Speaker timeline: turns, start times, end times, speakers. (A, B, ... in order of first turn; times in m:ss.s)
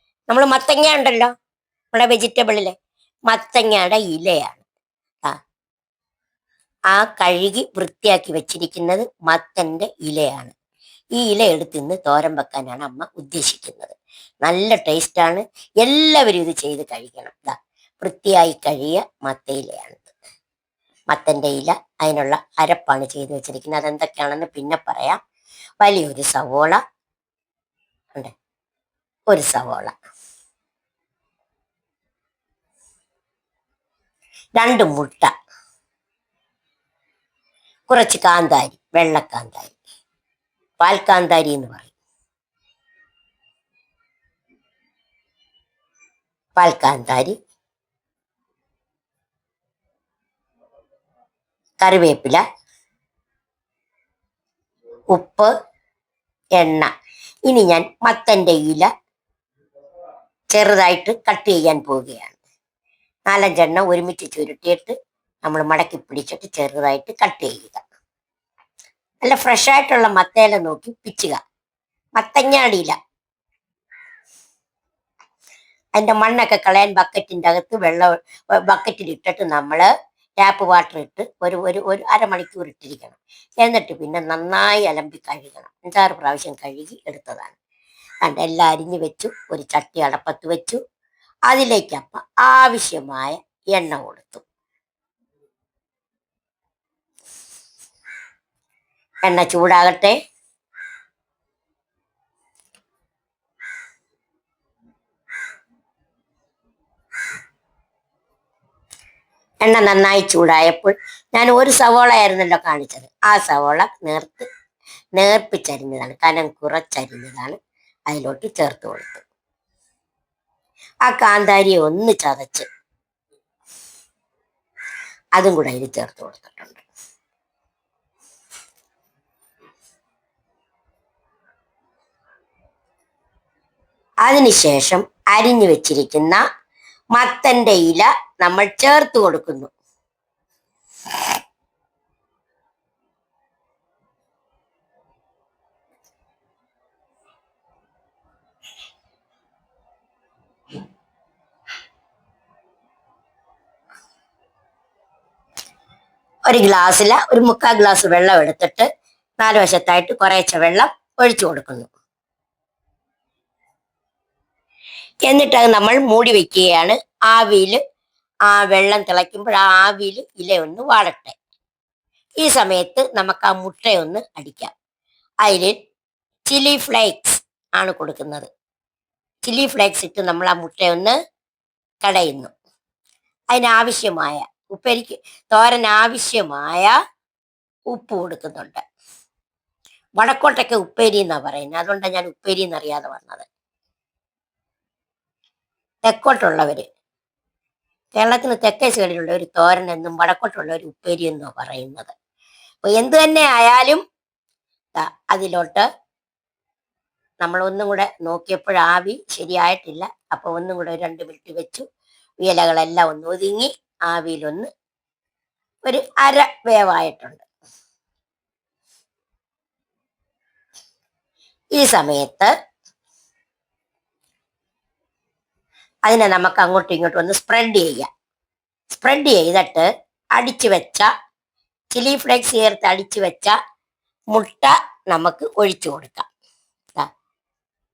0:00.3-0:01.3 A
0:01.9-0:02.7 A
0:03.3-0:04.6 A
0:06.9-0:10.5 A
0:11.2-0:20.1 A
0:21.1-0:25.2 A
0:25.8-0:26.8 A
0:29.3-0:29.9 A
0:34.6-0:35.3 A
0:37.9-0:39.7 A
0:40.8-0:41.9 A
0:46.6-0:47.4 A
0:51.8-0:52.4 A
0:55.1-0:55.5 A
0:56.6-0:56.9 A
0:57.4-0:58.9 A
1:00.5-1:02.4 A
1:03.3-1:07.8 A
1:09.2-1:11.4 A
1:12.2-1:13.0 A
1:16.0-1:18.1 A
1:18.6-1:19.9 A
1:20.4-1:27.5 A
1:28.2-1:30.8 A
1:31.5-1:34.4 A
1:39.2-1:40.2 A
1:49.6-1:54.5 A
1:55.2-1:57.6 A
1:58.1-1:59.2 A
2:01.0-2:02.6 A
2:05.4-2:06.8 A
2:14.2-2:16.4 A
2:17.1-2:19.7 A
2:36.5-2:38.9 A
2:39.4-2:41.9 A
2:45.3-2:47.8 A
2:48.5-2:51.4 A
2:52.4-2:54.7 A
2:55.4-2:55.7 A
2:56.5-2:58.5 A
2:59.4-3:01.1 A
3:02.0-3:02.5 A
3:03.5-3:06.9 A
3:07.9-3:08.8 A
3:10.2-3:13.5 A
3:16.0-3:16.9 A
3:18.2-3:22.1 A
3:22.8-3:24.0 A
3:25.0-3:25.8 A
3:27.4-3:31.8 A
3:32.4-3:34.7 A
3:35.8-3:37.4 A
3:41.7-3:42.5 A
3:46.1-3:48.1 A
3:48.9-3:51.1 A
3:51.9-3:53.5 A
3:54.3-3:56.3 A